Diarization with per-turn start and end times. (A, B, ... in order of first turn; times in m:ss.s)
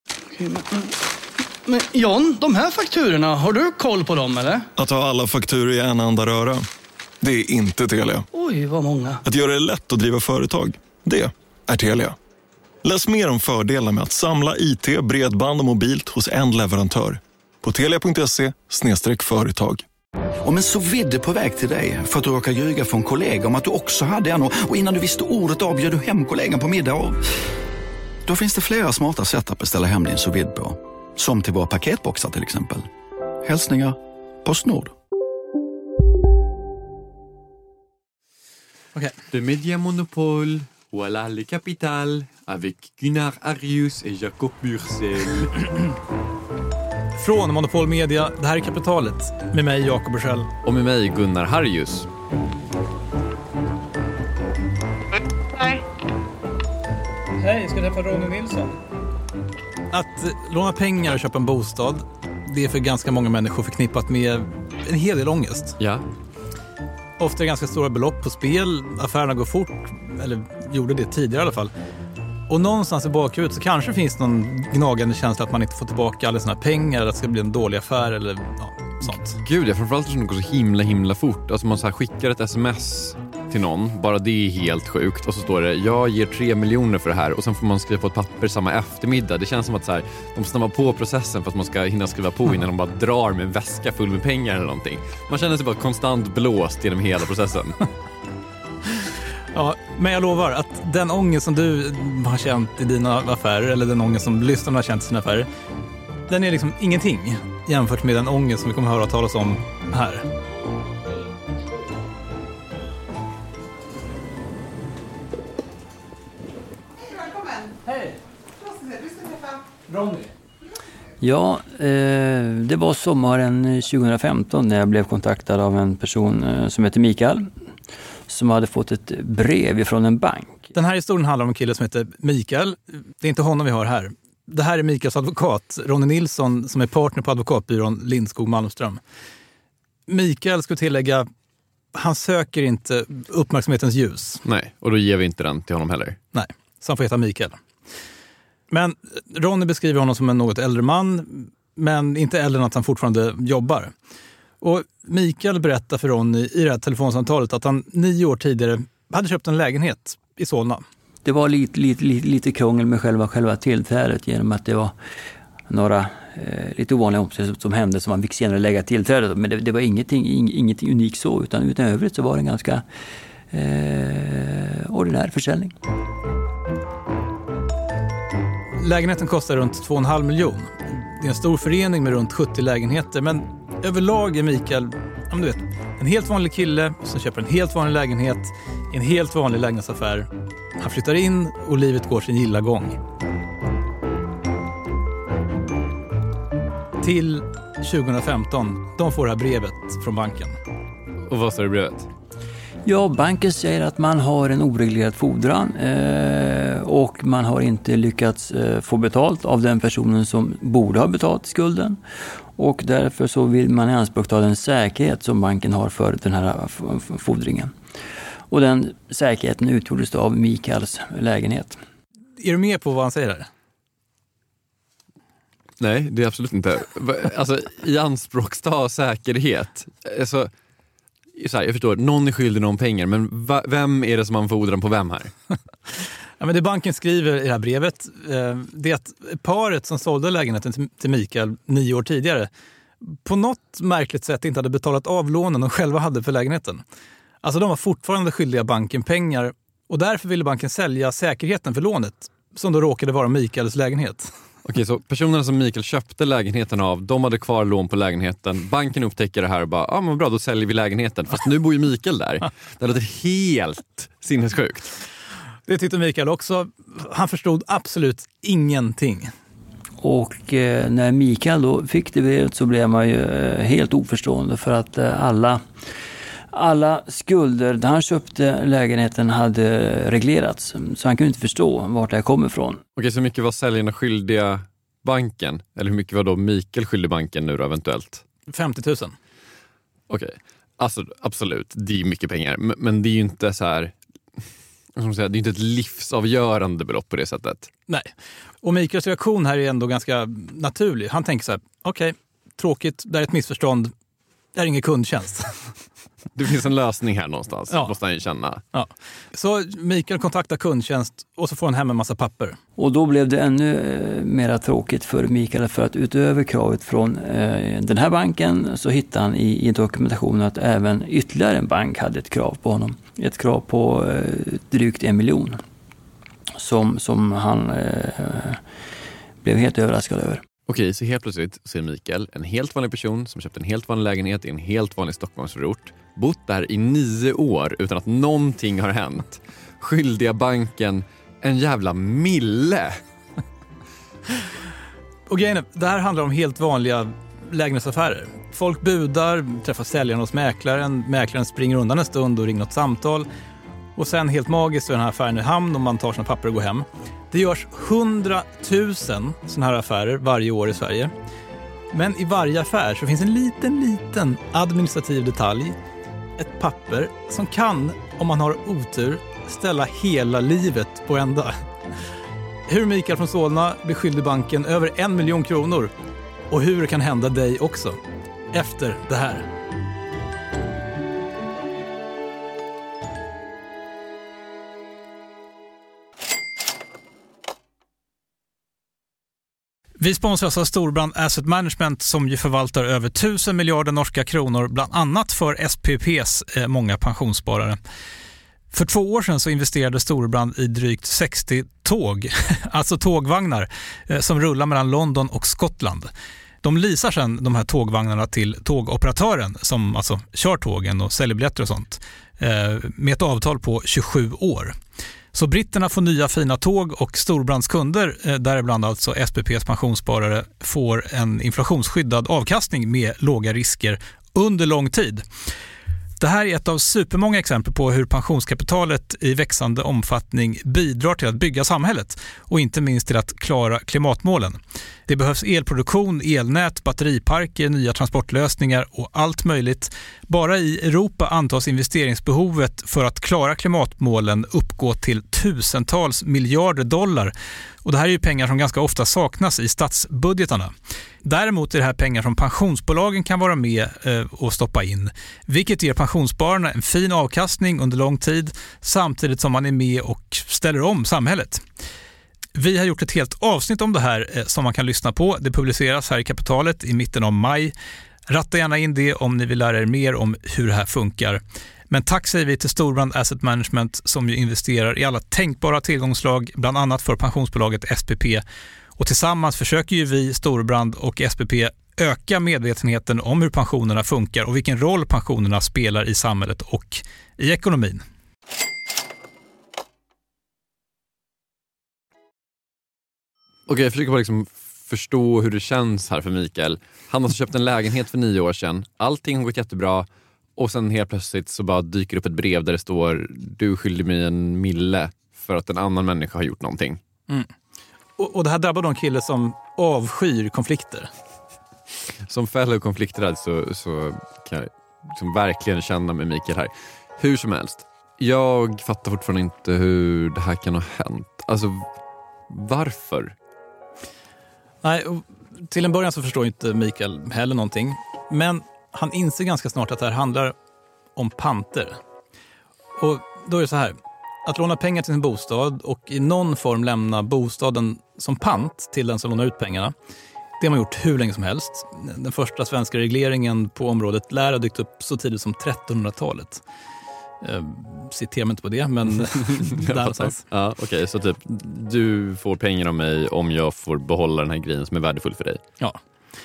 0:00.3-0:01.0 A
0:01.6-0:04.7 A
0:04.8-0:06.6 B
0:07.2-0:08.3 B
0:08.3-0:09.2 A
0:09.2-0:12.2 B
0:12.8-0:19.8 B
0:20.4-0:27.2 C
0:28.2-0:32.9 C
0:33.4-0:34.9 C
0:39.3-0:45.8 D
0:47.2-0:50.5 E
0:50.6-0:52.1 D
0:57.4-0:58.8 E
0:59.9-1:05.8 E
1:05.8-1:06.0 D
1:07.2-1:11.7 E
1:12.5-1:19.4 E
1:19.0-1:37.8 D
1:39.5-1:45.5 E
1:46.3-1:50.2 E
1:59.9-2:00.2 E
2:01.2-2:07.5 F
2:08.3-2:10.7 F
2:10.7-2:19.0 E
2:20.1-2:21.3 E
2:21.9-2:24.4 E
2:24.4-2:26.2 D
2:26.3-2:27.6 E
2:28.7-2:33.9 E
2:34.6-2:40.8 E
2:41.2-2:44.9 F
2:45.7-2:52.8 F
2:53.5-2:55.7 F
2:58.8-3:13.0 E
3:17.0-3:20.6 E
3:21.3-3:22.1 D
3:22.8-3:32.0 F
3:32.5-3:37.7 F
3:38.5-3:41.8 F
3:42.4-3:43.5 E
3:45.8-3:50.5 D
3:51.3-3:55.3 D
3:56.4-4:02.5 E
4:03.0-4:06.8 E
4:07.4-4:14.3 E
4:14.6-4:24.9 D
4:25.7-4:29.3 E
4:30.0-4:35.6 F
4:36.5-4:42.8 F
4:43.0-4:48.2 D
4:48.5-4:49.2 E
4:50.1-4:54.4 D
4:54.9-4:57.7 D
4:58.6-5:03.9 E
5:04.5-5:05.6 E
5:06.3-5:08.6 D
5:08.7-5:12.6 E
5:12.8-5:25.6 F
5:26.6-5:28.6 F
5:29.4-5:30.4 F
5:30.7-5:43.0 D
5:45.3-5:53.3 E
5:54.0-6:01.1 E
6:01.9-6:05.8 E
6:06.4-6:11.6 E
6:12.7-6:15.9 E
6:16.5-6:18.0 E
6:18.5-6:19.5 E
6:30.0-6:37.8 E
6:38.7-6:46.1 E
6:46.6-6:54.8 E
6:55.3-7:05.2 E
7:06.2-7:27.3 E
7:27.8-7:30.7 E
7:31.2-7:41.6 E
7:42.5-7:47.7 E
7:48.3-7:58.4 E
7:59.0-8:08.0 E
8:13.7-8:27.0 D
8:28.2-8:31.1 E
8:32.3-8:41.8 D
8:42.5-8:43.3 D
8:44.8-8:50.5 E
8:51.2-8:52.0 E
8:53.0-8:59.9 E
9:00.6-9:06.6 E
9:07.4-9:10.4 E
9:09.4-9:15.6 D